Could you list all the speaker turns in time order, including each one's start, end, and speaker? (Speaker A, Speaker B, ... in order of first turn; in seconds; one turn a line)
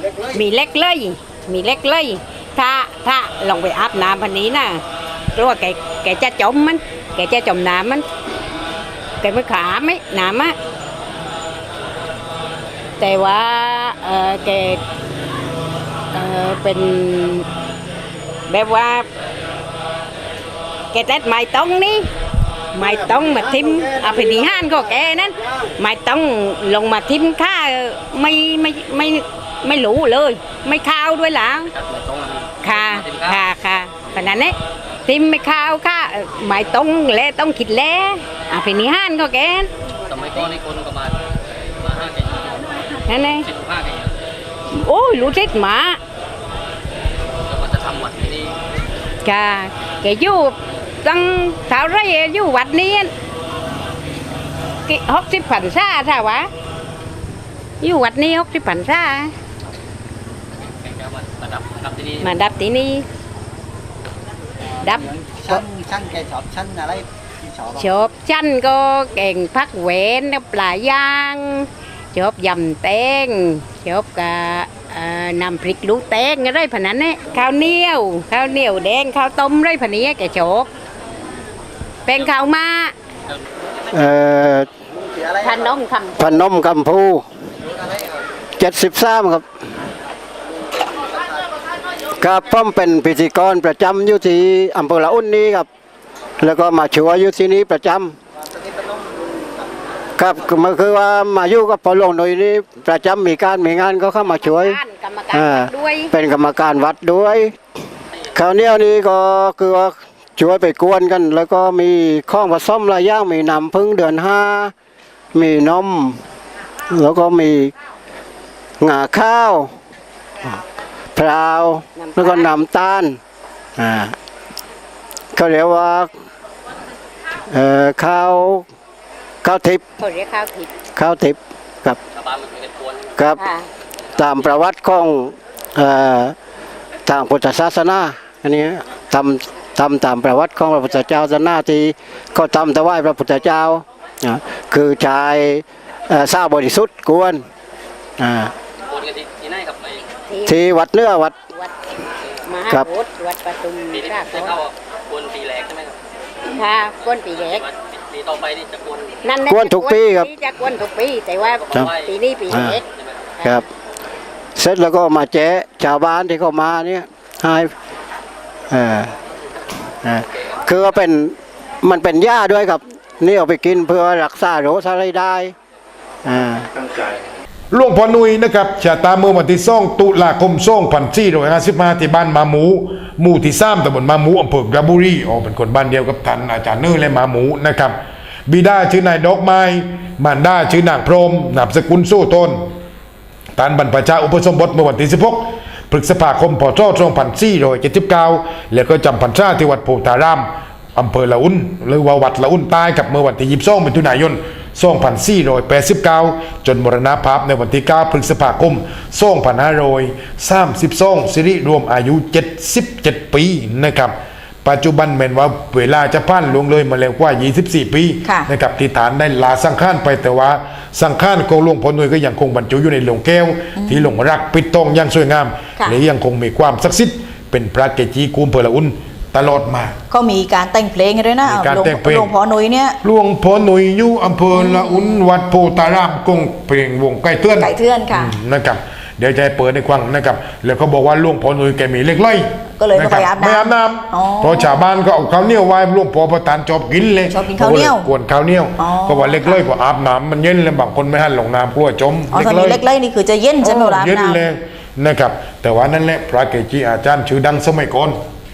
Speaker A: 0.3-4.8
Speaker A: 5.3-8.1
Speaker A: 9.2-10.6
Speaker A: 13.0-14.8
Speaker A: 16.1-17.5
Speaker A: 18.5-19.1
Speaker A: 20.9-22.1
Speaker A: 22.7-31.7
Speaker B: 31.7-33.4
Speaker A: 32.6-34.5
Speaker A: 35.1-39.7
Speaker B: 40.1-41.2
Speaker B: 41.8-42.8
Speaker A: 43.1-43.5
Speaker B: 43.4-44.1
Speaker A: 44.7-46.0
Speaker B: 47.5-48.6
Speaker A: 49.2-53.1
Speaker A: 54.9-56.5
Speaker A: 57.8-59.3
Speaker B: 60.7-62.3
Speaker A: 62.2-63.0
Speaker A: 64.8-65.6
Speaker A: 67.7-80.7
Speaker A: 82.1-82.9
Speaker C: 83.9-84.7
Speaker A: 85.4-86.4
Speaker C: 86.2-87.2
Speaker C: 88.6-89.5
Speaker C: 92.2-95.7
Speaker C: 96.4-98.2
Speaker C: 100.2-104.8
Speaker A: 104.4-106.1
Speaker C: 105.3-107.6
Speaker C: 108.3-114.7
Speaker C: 115.3-116.2
Speaker C: 116.9-117.7
Speaker C: 118.8-119.7
Speaker C: 121.2-123.2
Speaker A: 122.0-122.5
Speaker C: 123.8-124.2
Speaker C: 125.3-126.1
Speaker C: 127.5-128.7
Speaker C: 129.4-129.8
Speaker A: 130.0-130.7
Speaker C: 131.0-132.0
Speaker B: 132.2-133.1
Speaker A: 133.4-133.7
Speaker C: 134.2-136.3
Speaker C: 137.1-147.4
Speaker C: 148.2-148.5
Speaker B: 148.9-150.1
Speaker A: 150.3-150.6
Speaker C: 150.5-151.3
Speaker A: 152.4-154.6
Speaker B: 153.9-156.0
Speaker A: 156.6-157.7
Speaker B: 157.4-159.2
Speaker A: 159.2-162.8
Speaker C: 159.5-160.3
Speaker B: 161.7-162.1
Speaker C: 162.5-162.8
Speaker B: 162.9-163.3
Speaker C: 164.6-167.7
Speaker C: 168.7-169.1
Speaker C: 170.0-175.5
Speaker C: 176.2-176.8
Speaker D: 177.7-192.7
Speaker D: 193.6-230.0
Speaker E: 223.8-224.1
Speaker E: 230.1-233.0
Speaker D: 231.4-232.3
Speaker D: 233.0-252.8
Speaker E: 234.5-235.2
Speaker E: 237.6-238.3
Speaker E: 242.8-244.8
Speaker E: 247.3-248.1
Speaker E: 248.8-249.6
Speaker E: 252.3-254.4
Speaker D: 253.6-258.2